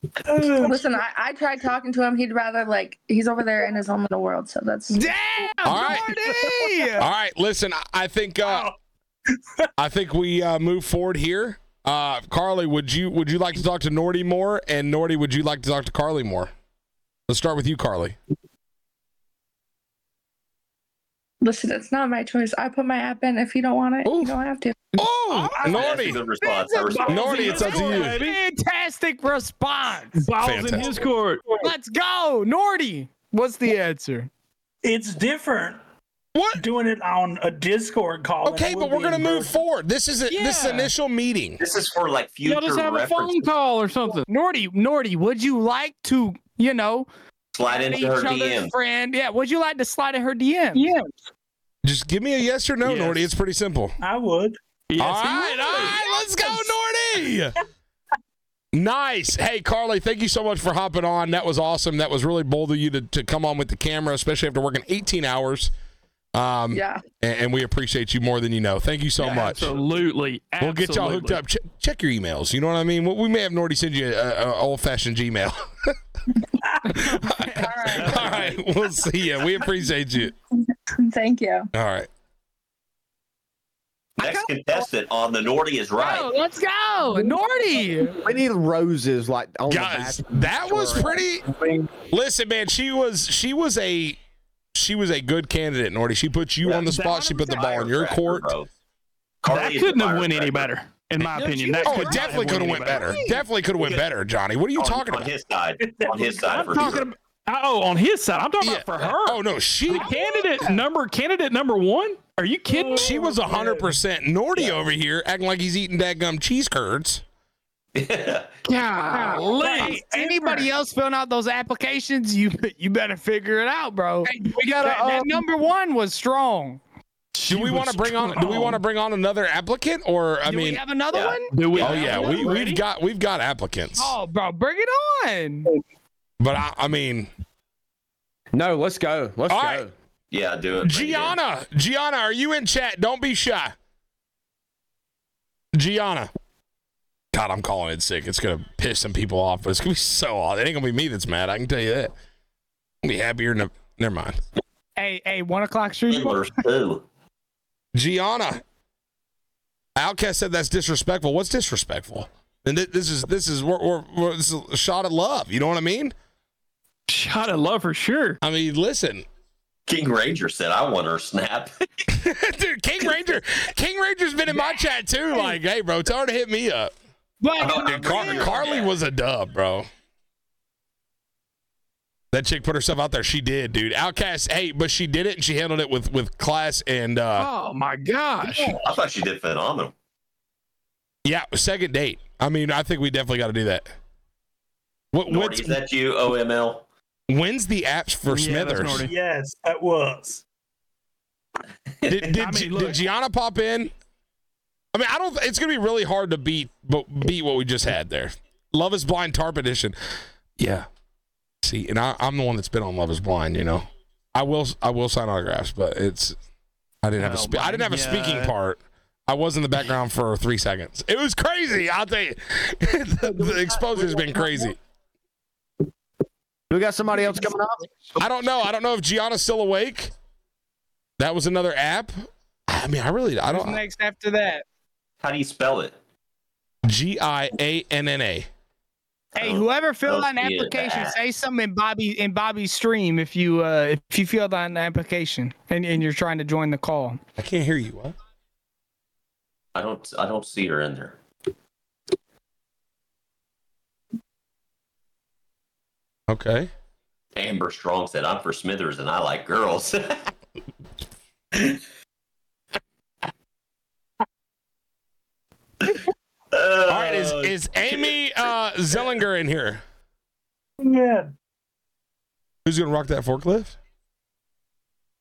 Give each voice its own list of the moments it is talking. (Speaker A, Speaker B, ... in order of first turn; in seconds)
Speaker A: 0.2-0.9, 8.4-8.7, 34.8-35.8, 36.5-39.6, 54.0-54.6, 76.6-77.0, 105.8-106.8, 112.7-113.9, 119.5-120.7, 199.0-200.4, 270.8-271.3
Speaker B: 0.6-5.1, 21.4-24.9, 66.7-67.0, 80.9-81.7
Speaker C: 4.9-7.1, 26.4-30.2, 31.6-34.3, 44.3-47.1, 47.6-50.9, 77.6-78.0, 86.0-88.2, 101.3-103.3, 110.0-110.7, 119.1-126.8, 130.4-132.4, 133.9-135.7, 155.0-156.5, 177.4-178.6, 233.5-234.6, 239.3-247.2
Speaker D: 5.6-6.1, 7.0-8.7, 9.8-16.5, 17.3-18.1, 24.0-24.3, 24.9-26.2, 27.1-28.2, 30.4-31.1, 36.3-36.6, 38.4-41.6, 51.8-54.0, 55.0-57.6, 58.7-65.7, 66.3-69.7, 70.6-75.9, 76.9-80.3, 81.7-82.1, 89.7-91.5, 92.1-94.2, 94.7-98.5, 101.8-105.3, 108.6-110.1, 113.0-117.2, 127.5-130.8, 131.8-134.2, 136.4-137.3, 139.5-139.8, 140.8-143.7, 145.7-146.3, 147.3-152.1, 153.0-154.4, 157.9-158.6, 160.0-166.1, 168.4-169.2, 172.1-176.9, 177.7-179.9, 182.3-187.5, 191.2-193.9, 195.1-195.8, 197.3-199.1, 202.1-203.9, 204.9-209.9, 210.6-210.9, 211.6-216.3, 217.0-224.8, 228.2-230.1, 231.2-233.8, 236.8-238.5, 247.4-248.1, 256.3-256.7, 266.9-269.8, 272.6-273.8
Speaker E: 25.6-27.8, 41.6-43.5, 47.5-48.7, 84.2-86.3, 96.6-98.7, 99.4-100.7, 103.8-104.1, 104.7-107.1, 117.9-118.5, 131.1-132.7, 140.3-141.4, 156.1-157.1, 169.9-171.7, 177.6-179.0, 188.8-189.9, 195.2-196.8, 202.0-202.4, 235.2-236.0, 239.4-241.2, 249.7-251.2, 257.3-260.3, 261.5-261.8, 266.5-269.2
Speaker F: 27.1-28.4, 30.1-31.7, 40.3-40.9, 42.4-44.2, 52.8-53.3, 54.9-56.0, 69.2-71.4, 78.0-78.5, 99.5-103.3, 106.5-113.2, 118.7-120.0, 127.3-128.8, 131.5-132.7, 167.1-168.4, 187.3-188.8, 198.3-199.1, 202.4-203.0, 217.2-218.5
Speaker G: 84.2-84.5, 88.2-91.9, 124.3-125.4, 138.5-139.9, 226.7-227.8